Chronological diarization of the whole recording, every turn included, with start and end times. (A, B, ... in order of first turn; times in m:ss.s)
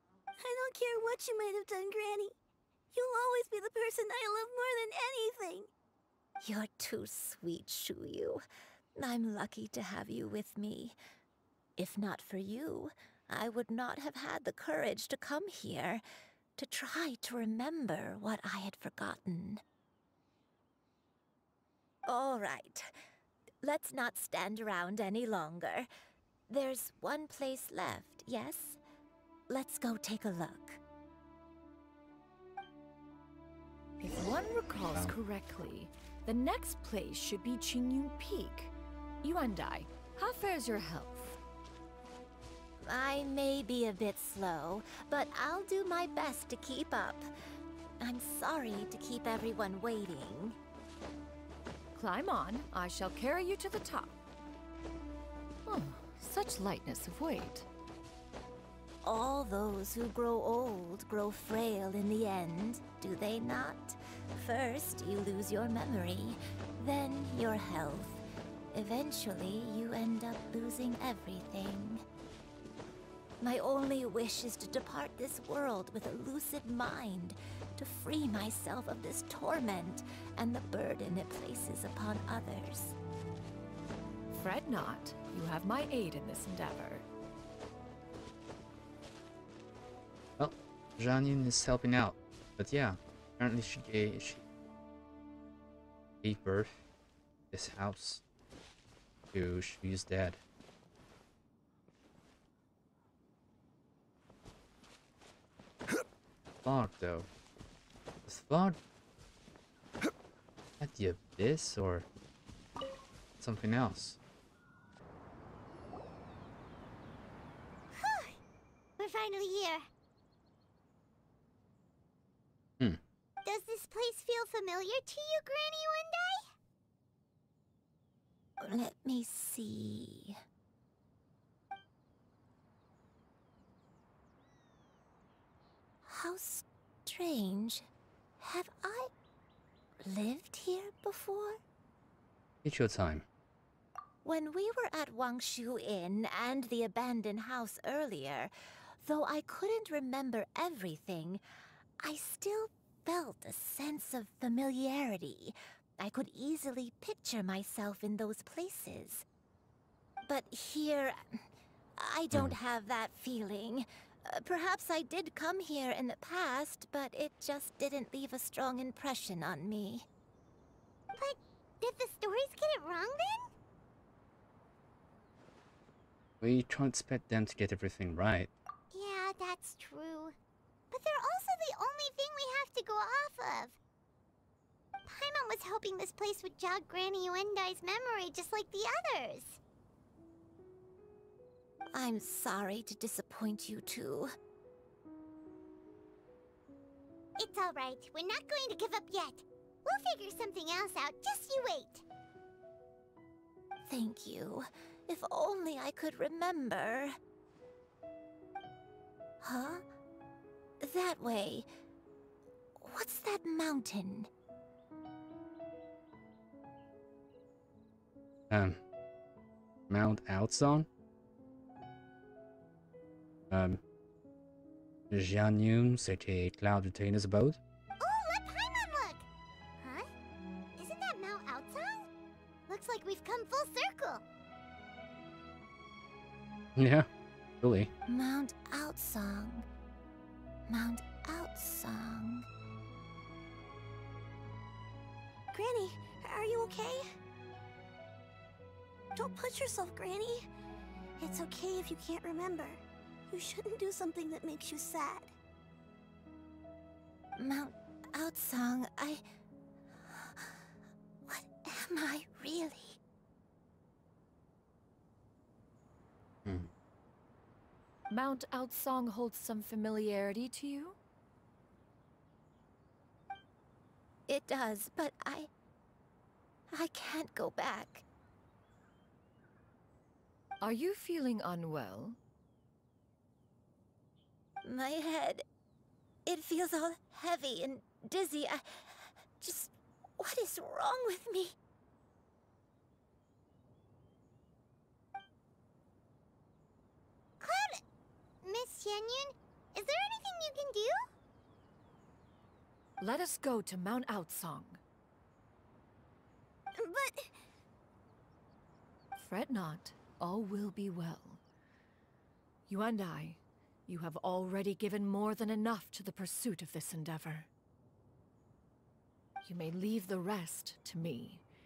0:00.4-0:02.4 A
0:02.9-0:05.7 A
0:06.4-0:08.4 B
0:09.0-0:10.9 B
0:11.8-0:16.0 B
0:16.6-0:19.6 B
0:22.0-0:22.9 B
0:23.6-0:25.9 B
0:26.5-0:28.8 B
0:29.5-0:30.8 B
0:34.0-0:41.4 C
0:42.8-0:47.2 B
0:48.0-0:50.6 B
0:51.9-0:54.2 C
0:55.7-0:57.7 C
0:59.0-1:08.2 B
1:08.7-1:12.0 B
1:13.4-1:23.0 B
1:24.3-1:27.0 C
1:30.4-1:34.4 D
1:36.2-1:36.8 D
1:37.5-1:38.2 D
1:39.3-1:40.4 D
1:46.6-1:47.3 D
1:48.2-1:48.8 D
1:50.8-1:52.1 D
1:53.4-1:54.2 D
1:57.9-1:58.4 E
1:59.0-1:59.9 E
2:03.4-2:06.5 E
2:08.6-2:10.4 B
2:16.0-2:17.8 B
2:18.4-2:19.1 B
2:20.0-2:21.6 B
2:22.6-2:23.2 D
2:24.2-2:28.5 B
2:29.0-2:31.4 B
2:32.0-2:39.2 B
2:40.2-2:41.4 B
2:42.0-2:50.1 B
2:51.1-2:53.5 E
2:56.4-2:58.5 D
2:58.9-3:00.3 E
3:00.9-3:03.8 E
3:05.0-3:09.6 E
3:11.9-3:14.3 B
3:17.4-3:22.0 E
3:23.8-3:27.1 B
3:29.4-3:29.8 B
3:30.8-3:31.7 B
3:32.8-3:34.3 B
3:38.5-3:38.8 D
3:39.9-3:40.9 D
3:43.5-3:43.8 D
3:45.1-3:47.6 D
3:48.0-3:49.3 E
3:49.8-3:50.1 E
3:50.8-3:52.1 E
3:52.7-3:54.2 E
3:56.8-3:57.1 D
3:57.6-3:57.9 D
3:58.1-3:59.7 B
4:00.7-4:02.5 B
4:05.5-4:07.0 A
4:09.1-4:10.5 A
4:11.2-4:15.3 A
4:17.4-4:19.2 B
4:20.1-4:20.5 B
4:21.2-4:23.0 B
4:26.4-4:26.7 D
4:28.1-4:31.0 C
4:34.3-4:35.5 B
4:36.7-4:38.0 B
4:40.6-4:42.2 C
4:44.6-4:45.4 B
4:46.2-4:51.5 B
4:57.4-4:57.8 E
4:58.4-5:01.1 E
5:03.0-5:04.8 C
5:06.8-5:07.4 A
5:09.2-5:11.4 C
5:12.7-5:17.5 C
5:19.4-5:21.4 C